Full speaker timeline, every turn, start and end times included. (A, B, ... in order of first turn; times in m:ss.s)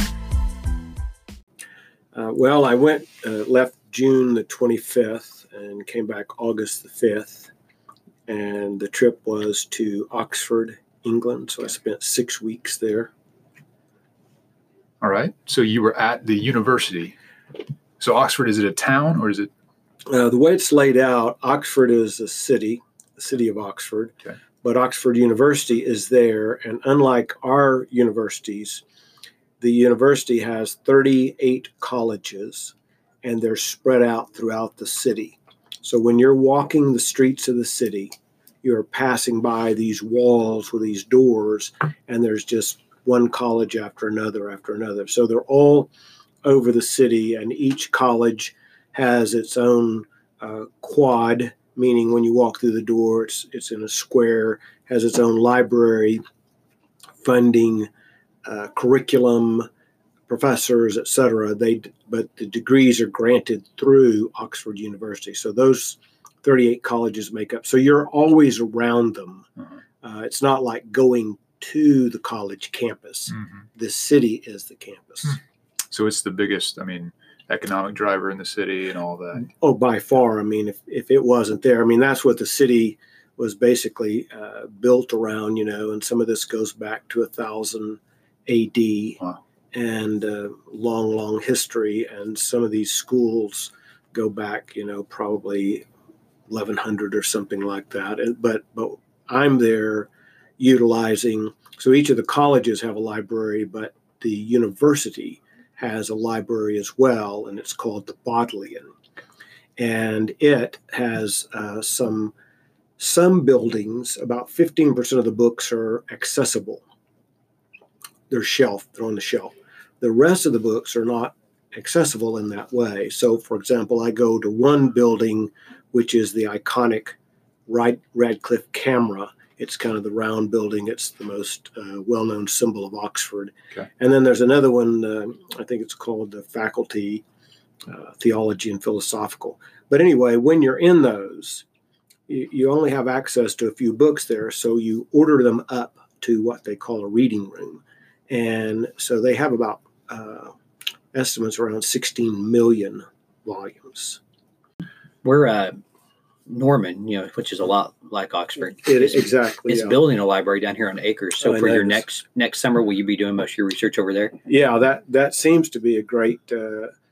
0:02.1-0:07.5 A
0:08.3-0:13.1 A
0:15.0-0:17.2 B
0:18.0-0:19.5 B
0:20.1-0:28.8 A
0:29.6-0:45.9 A
0:46.4-0:56.2 A
0:57.2-0:57.9 A
0:58.4-0:59.7 A
1:00.3-1:09.5 A
1:10.0-1:15.4 A
1:15.9-1:19.5 B
1:19.4-1:29.2 A
1:29.7-1:35.8 A
1:36.5-1:48.9 A
1:49.8-1:52.3 A
1:53.0-1:56.8 A
1:58.3-2:07.2 A
2:07.7-2:17.2 A
2:17.8-2:21.6 A
2:22.3-2:30.5 A
2:31.1-2:34.2 A
2:35.2-2:35.8 C
2:36.5-2:44.4 C
2:38.8-2:40.0 A
2:41.4-2:42.0 A
2:44.4-2:46.9 A